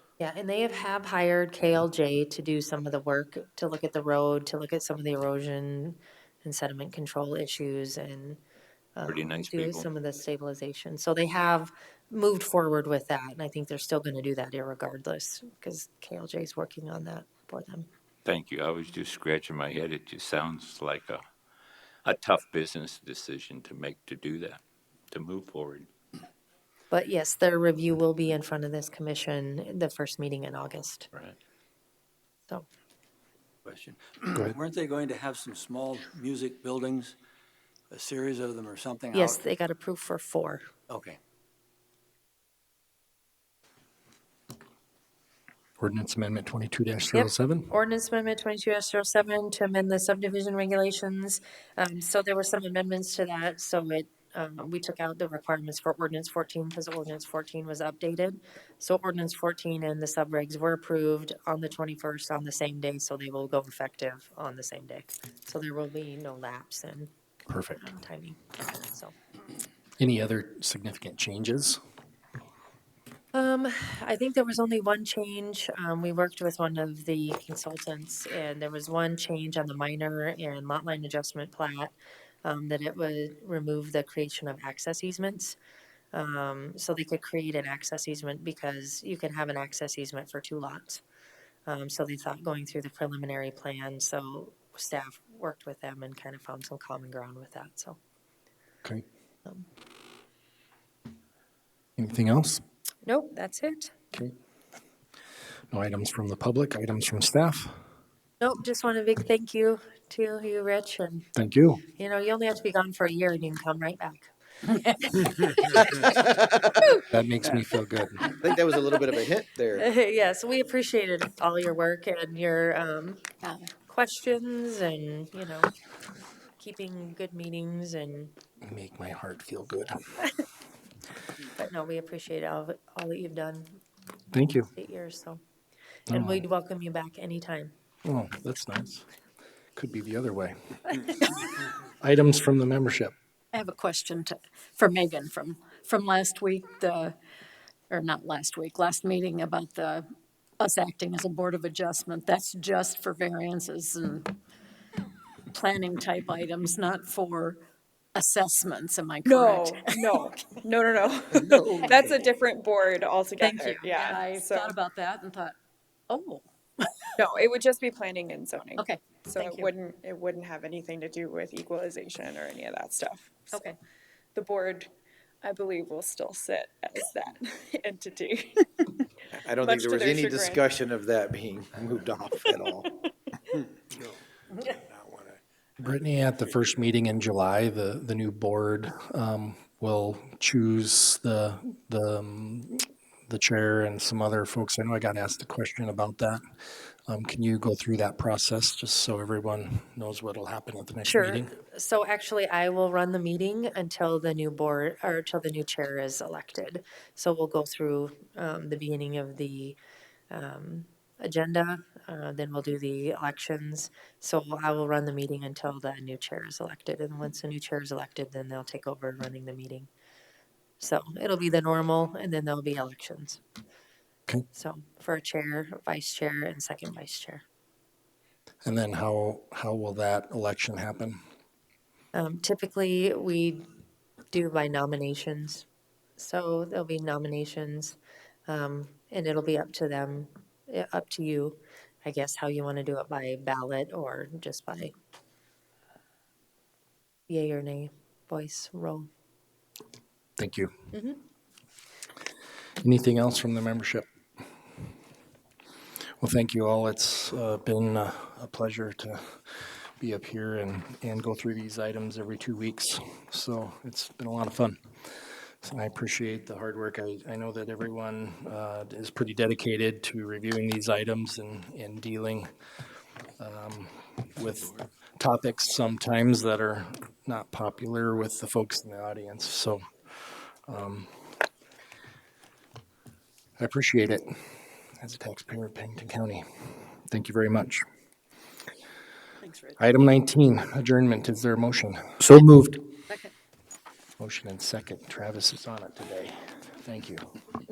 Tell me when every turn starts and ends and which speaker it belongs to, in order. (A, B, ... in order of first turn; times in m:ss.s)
0:00.2-0:08.4 A
0:09.0-0:17.9 A
0:09.1-0:09.9 B
0:18.2-0:21.2 B
0:22.0-0:25.9 B
0:26.9-0:31.1 A
0:33.7-0:37.2 C
0:37.9-0:39.4 C
0:39.1-0:40.7 A
0:40.9-0:41.2 C
0:45.8-0:47.7 D
0:47.1-1:07.1 A
1:07.5-1:07.9 D
1:07.8-1:09.1 A
1:10.0-1:11.8 D
1:13.3-1:21.9 A
1:22.4-1:25.6 A
1:26.1-1:31.0 A
1:31.7-1:38.0 A
1:42.0-1:42.6 D
1:43.0-1:43.9 A
1:45.7-1:47.8 D
1:48.4-1:51.3 A
1:51.4-1:51.8 D
1:51.9-1:54.3 A
1:54.7-1:56.1 E
1:57.1-1:58.4 D
1:58.6-1:58.9 F
1:59.5-1:59.8 F
1:59.7-2:03.2 A
2:03.9-2:05.7 A
2:06.6-2:08.3 A
2:08.6-2:10.0 D
2:11.6-2:13.8 A
2:14.3-2:14.7 D
2:14.7-2:15.4 A
2:16.1-2:17.7 A
2:16.1-2:16.5 D
2:18.0-2:19.1 D
2:19.8-2:21.3 D
2:22.0-2:23.1 D
2:23.5-2:27.2 E
2:27.9-2:30.1 E
2:30.6-2:34.3 E
2:35.5-2:37.6 E
2:38.2-2:40.2 E
2:39.2-2:44.8 G
2:41.5-2:42.1 E
2:43.4-2:45.6 E
2:46.1-2:47.1 E
2:47.2-2:53.6 G
2:48.8-2:49.7 E
2:54.4-2:54.9 G
2:55.4-3:00.7 G
2:59.5-3:02.8 F
3:05.8-3:16.4 D
3:17.1-3:21.5 D
3:21.0-3:29.8 A
3:30.3-3:39.9 A
3:40.8-3:43.4 A
3:44.5-3:47.4 A
3:48.6-3:51.2 D
3:52.1-3:53.7 A
3:54.3-3:55.7 A
3:56.2-4:04.9 A
4:07.3-4:09.1 A
4:10.4-4:10.7 D
4:12.8-4:14.1 D
4:16.2-4:32.5 D
4:33.4-4:41.2 D
4:43.6-4:44.4 D
4:45.0-4:47.8 D
4:49.4-4:49.8 E
4:49.8-4:52.7 D
4:54.2-4:57.4 D